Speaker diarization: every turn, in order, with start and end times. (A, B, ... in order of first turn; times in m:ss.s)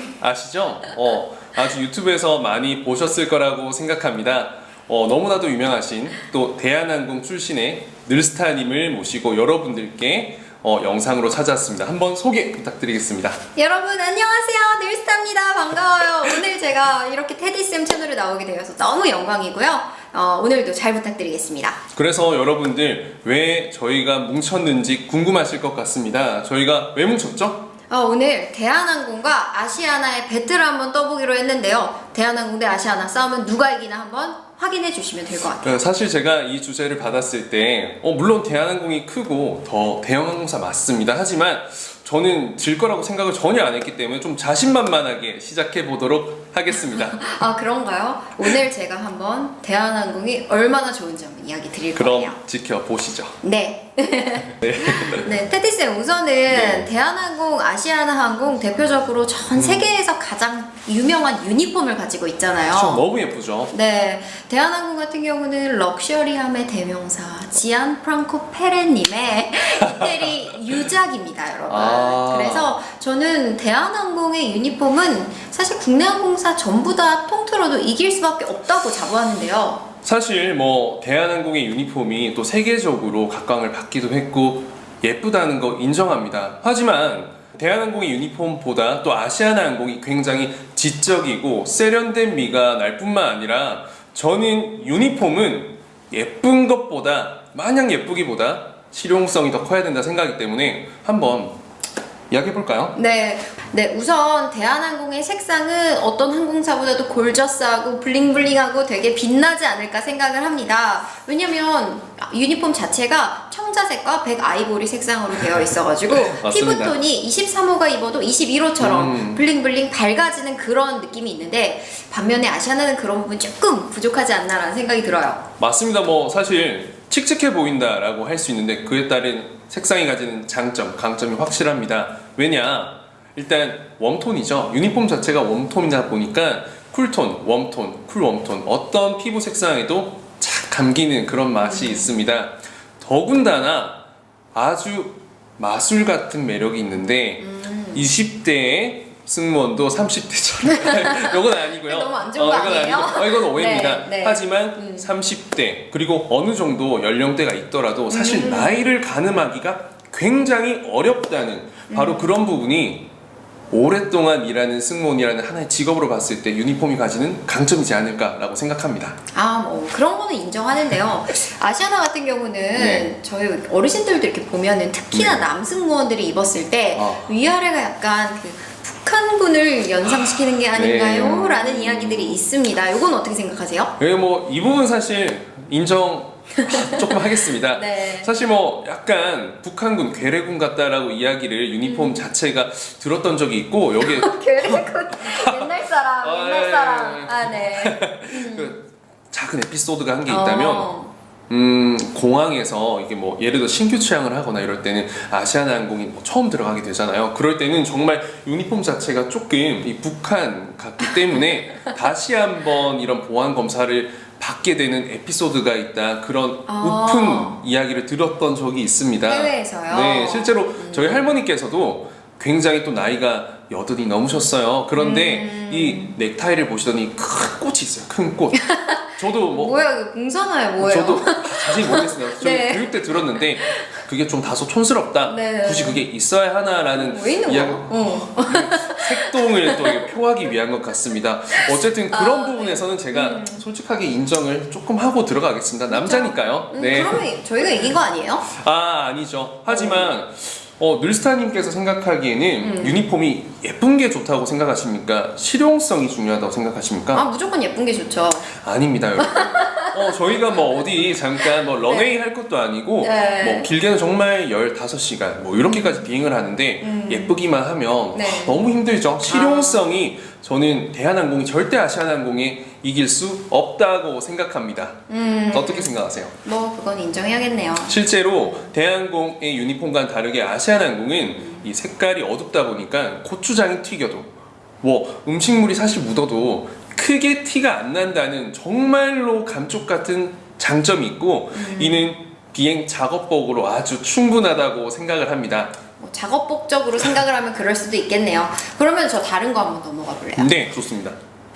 0:00.2-0:13.4 A
0:13.6-0:21.8 B
0:21.9-0:27.7 A
0:27.9-0:35.8 B
0:35.6-0:47.2 A
0:46.9-0:52.4 B
0:51.9-0:53.4 A
0:53.4-1:03.0 B
0:54.5-0:55.3 A
0:56.5-0:56.9 A
0:59.6-0:59.8 A
1:02.7-1:03.7 A
1:03.7-1:19.8 B
1:09.7-1:10.9 A
1:11.7-1:12.7 A
1:20.0-1:41.6 A
1:42.3-1:43.0 A
1:42.9-2:05.4 B
1:56.1-1:57.0 A
1:58.8-1:59.4 A
2:05.6-2:24.0 A
2:21.6-2:22.1 B
2:24.5-2:43.1 A
2:27.4-2:28.0 B
2:30.7-2:35.1 B
2:38.1-2:38.8 B
2:41.9-2:42.3 B
2:43.7-2:49.2 A
2:49.3-3:03.9 B
2:52.7-2:53.1 A
2:55.1-2:55.4 A
2:56.9-2:57.3 A
3:00.7-3:02.4 A
3:04.0-3:20.9 A
3:06.6-3:08.3 B
3:11.8-3:12.2 B
3:14.0-3:18.7 B
3:20.3-3:21.1 B
3:21.5-3:49.8 A
3:36.7-3:37.6 B
3:39.3-3:41.2 B
3:45.0-3:46.1 B
3:48.5-3:53.9 B
3:50.8-4:07.2 A
3:55.2-3:56.0 B
3:56.9-4:00.1 B
4:01.7-4:03.6 B
4:05.9-4:08.5 B
4:08.5-4:17.3 A
4:09.7-4:10.1 B
4:12.6-4:13.0 B
4:17.1-4:18.5 B
4:18.5-4:35.0 A
4:19.2-4:20.8 B
4:21.5-4:22.1 B
4:23.0-4:23.7 B
4:25.6-4:26.0 B
4:26.8-4:27.4 B
4:28.1-4:28.7 B
4:29.3-4:29.9 B
4:35.1-4:38.0 B
4:35.5-4:36.3 A
4:37.8-4:44.3 A
4:41.4-4:41.6 B
4:44.8-4:55.7 A
4:51.5-4:52.1 B
4:56.0-5:00.5 B
5:00.4-5:01.2 A